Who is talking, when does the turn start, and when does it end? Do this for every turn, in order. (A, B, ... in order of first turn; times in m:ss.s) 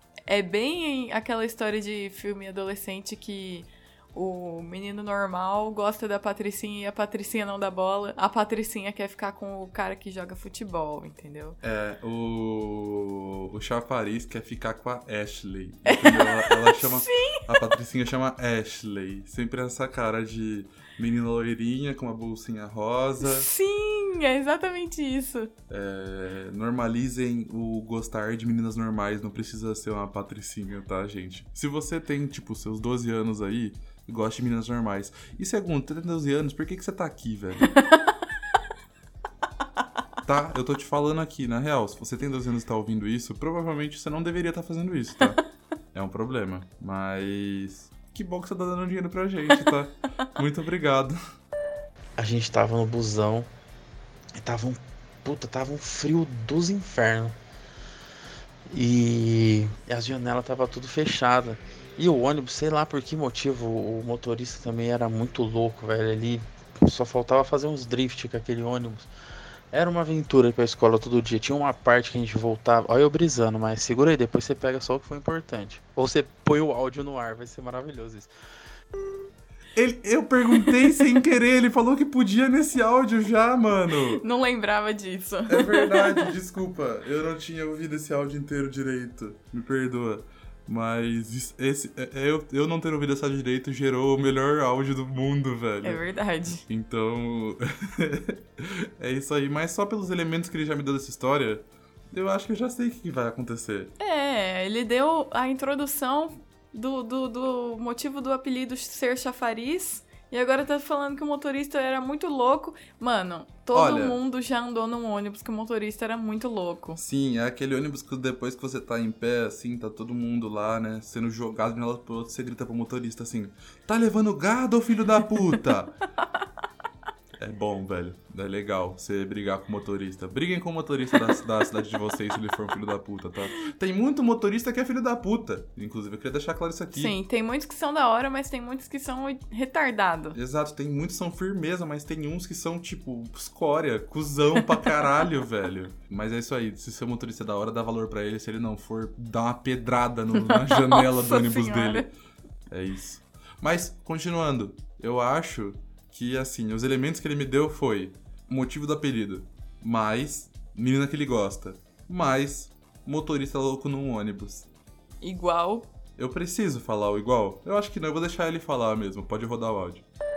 0:00.3-0:11.6 A
0:11.6-0:23.5 B
0:15.9-0:17.6 A
0:23.2-0:25.5 A
0:25.7-0:37.8 B
0:40.2-0:45.4 B
0:45.9-0:51.2 B
0:52.2-0:53.5 C
0:54.4-0:57.3 C
0:58.7-1:09.1 C
1:09.7-1:18.3 C
1:19.8-1:24.2 B
1:24.2-1:26.3 A
1:25.5-1:36.0 B
1:35.8-1:36.6 A
1:36.7-1:43.9 B
1:44.0-1:57.0 A
1:53.7-1:54.2 B
1:57.0-2:06.0 B
2:07.4-2:17.2 B
2:16.9-2:20.4 A
2:20.3-2:32.1 B
2:30.3-2:32.1 A
2:32.7-2:44.7 B
2:45.2-2:45.9 A
2:46.2-2:50.0 B